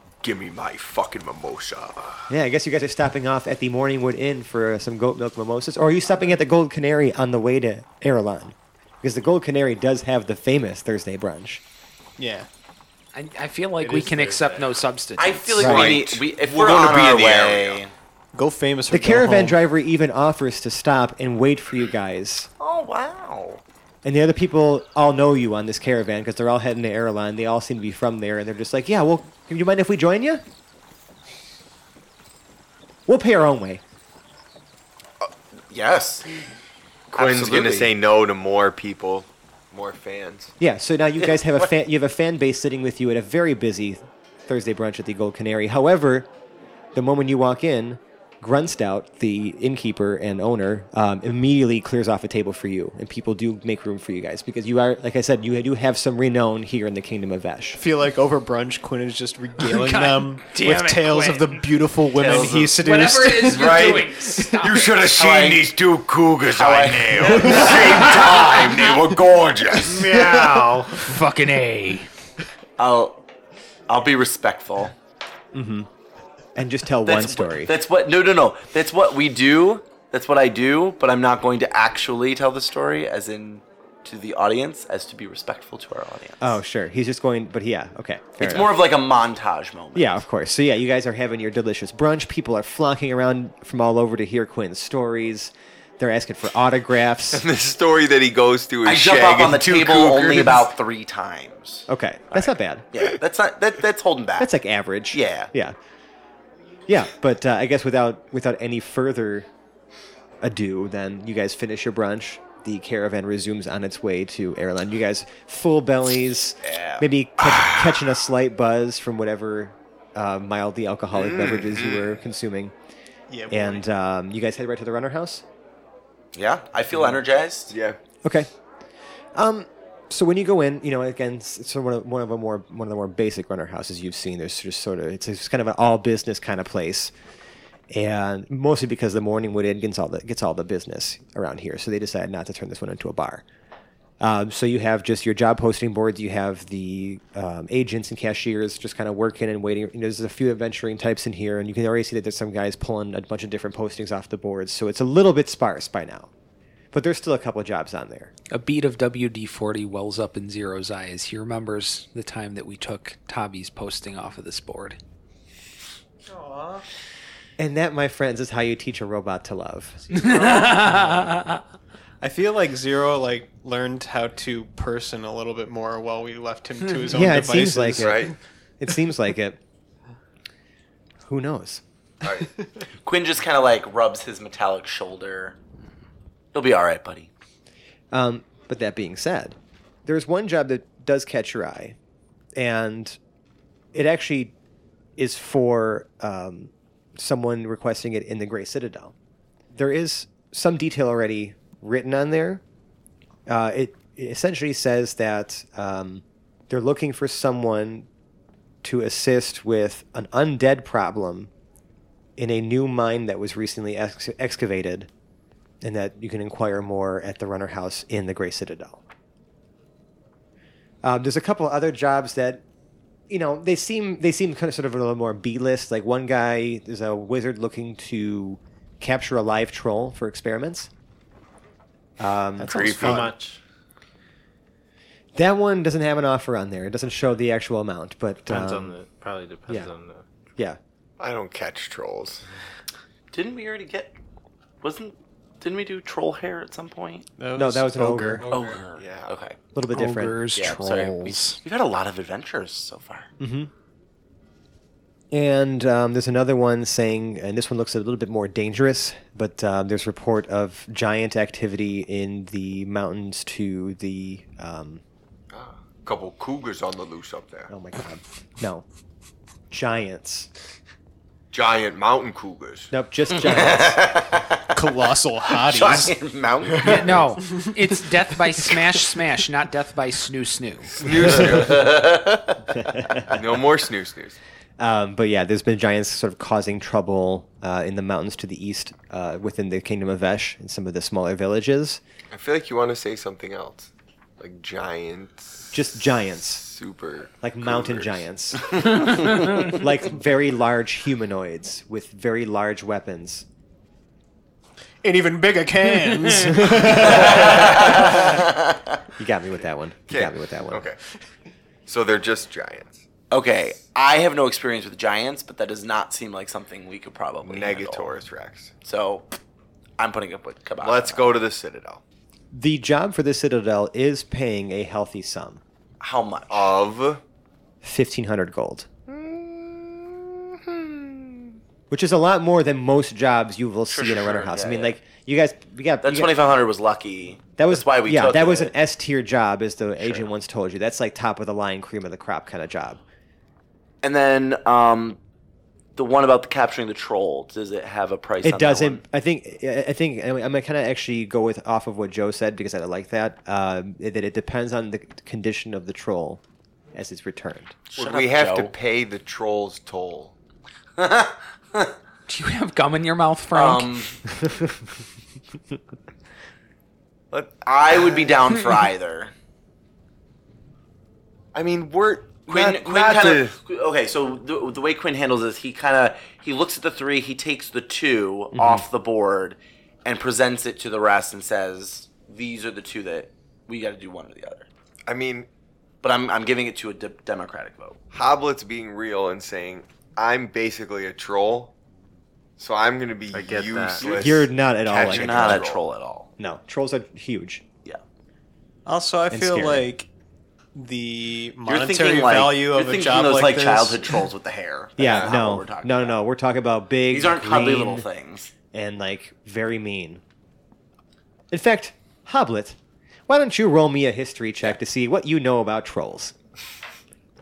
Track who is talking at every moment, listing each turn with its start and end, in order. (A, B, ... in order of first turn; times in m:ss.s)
0:00.2-0:02.3 A
0:02.3-0:11.6 B
0:12.2-0:12.5 C
0:13.1-0:15.6 D
0:13.8-0:14.7 E
0:15.2-0:17.9 F
0:15.6-0:17.8 A
0:15.6-0:16.0 B
0:18.3-0:19.6 C
0:18.9-0:22.5 B
0:22.6-0:23.6 F
0:24.0-0:30.4 B
0:33.1-0:33.8 B
0:35.7-0:36.3 F
0:37.1-0:40.5 A
0:37.1-0:37.9 F
0:40.6-0:46.3 B
0:47.0-0:57.8 B
0:57.8-1:04.5 C
0:59.6-1:01.6 D
1:02.2-1:02.8 F
1:02.6-1:04.9 D
1:03.4-1:10.2 A
1:05.0-1:05.7 F
1:06.5-1:08.6 F
1:07.4-1:07.7 B
1:10.0-1:12.1 D
1:12.8-1:13.2 F
1:13.9-1:14.9 F
1:15.5-1:15.9 B
1:16.6-1:17.7 B
1:17.0-1:26.6 F
1:26.4-1:28.8 B
1:28.4-1:30.2 F
1:29.9-1:37.4 B
1:37.3-1:40.7 A
1:38.8-1:44.5 F
1:41.9-1:42.9 B
1:44.4-1:45.8 B
1:45.1-1:45.5 F
1:46.9-1:49.5 B
1:50.4-2:02.7 B
1:56.6-1:57.0 F
1:57.4-1:58.0 A
2:01.1-2:02.2 A
2:03.3-2:03.8 C
2:03.5-2:05.4 B
2:06.3-2:07.7 F
2:07.7-2:08.0 A
2:08.2-2:08.5 B
2:09.4-2:17.1 B
2:17.9-2:23.4 B
2:24.2-2:36.3 B
2:36.9-2:38.3 B
2:38.5-2:45.0 D
2:46.3-2:46.8 C
2:47.6-2:50.0 B
2:50.1-2:51.2 C
2:50.1-2:51.6 D
2:52.2-2:58.3 C
2:57.1-2:59.6 B
2:58.0-2:58.4 A
3:01.3-3:01.8 B
3:02.2-3:02.5 A
3:03.0-3:05.6 F
3:06.5-3:07.3 F
3:08.1-3:12.0 B
3:12.6-3:13.2 B
3:13.9-3:14.5 B
3:15.2-3:19.2 B
3:19.7-3:22.6 B
3:23.5-3:28.1 B
3:28.8-3:31.5 B
3:32.4-3:35.1 B
3:35.8-3:39.0 B
3:41.0-3:42.6 B
3:43.3-3:50.9 B
3:52.2-3:53.3 B
3:52.6-3:53.4 A
3:52.7-3:53.6 E
3:55.4-3:59.0 B
3:58.5-4:00.3 E
4:01.2-4:02.4 A
4:03.3-4:04.1 F
4:04.8-4:07.3 F
4:07.4-4:08.5 C
4:07.6-4:08.4 B
4:08.4-4:08.8 E
4:08.5-4:09.6 F
4:08.9-4:09.4 A
4:09.7-4:10.5 B
4:09.9-4:11.6 D
4:10.6-4:13.3 F
4:13.4-4:13.7 B
4:15.3-4:25.0 B
4:25.5-4:27.7 A
4:27.7-4:28.8 B
4:29.7-4:30.5 B
4:31.5-4:32.9 A
4:32.9-4:34.1 B
4:33.4-4:34.8 F
4:34.7-4:36.2 C
4:35.5-4:37.3 F
4:36.8-4:41.0 D
4:41.0-4:42.0 A
4:41.3-4:43.2 F
4:42.8-4:43.3 B
4:43.3-4:44.4 A
4:44.8-4:52.0 B
4:52.3-4:55.9 A
4:55.7-4:56.6 B
4:56.5-4:59.1 A
4:57.4-4:58.8 B
4:59.7-5:03.5 B
5:05.0-5:08.0 C
5:06.5-5:08.0 B
5:07.1-5:09.0 F
5:09.2-5:10.9 B
5:10.1-5:11.0 A
5:11.9-5:13.0 A
5:13.3-5:18.1 F
5:17.4-5:18.7 A
5:18.8-5:19.3 F
5:20.0-5:21.4 F
5:20.8-5:22.0 A
5:22.5-5:25.6 B
5:26.0-5:26.7 F
5:26.5-5:27.2 A
5:27.8-5:28.9 B
5:29.1-5:31.5 F
5:31.9-5:36.3 B
5:33.9-5:35.0 F
5:36.0-5:38.7 F
5:37.6-5:43.0 B
5:40.0-5:40.2 F
5:44.0-5:45.2 F
5:46.0-5:49.0 F
5:48.4-5:56.4 B
5:56.9-5:57.8 B
5:57.9-5:58.7 F
5:58.0-6:00.3 A
6:01.0-6:01.9 F
6:02.3-6:03.9 D
6:03.5-6:04.2 F
6:07.3-6:08.6 A
6:07.5-6:09.3 F
6:11.5-6:13.6 A
6:12.5-6:24.7 F
6:18.5-6:18.9 B
6:25.1-6:25.5 A
6:26.0-6:28.0 F
6:28.1-6:31.7 A
6:32.6-6:35.8 A
6:33.3-6:34.1 E
6:34.2-6:35.7 B
6:34.9-6:36.3 F
6:36.4-6:37.6 B
6:38.9-6:40.1 C
6:39.3-6:39.9 B
6:40.8-6:44.2 C
6:41.7-6:46.2 F
6:45.0-6:48.1 B
6:45.0-6:45.3 A
6:47.1-6:48.5 F
6:48.7-6:50.2 B
6:51.5-6:52.8 B
6:53.3-6:56.3 B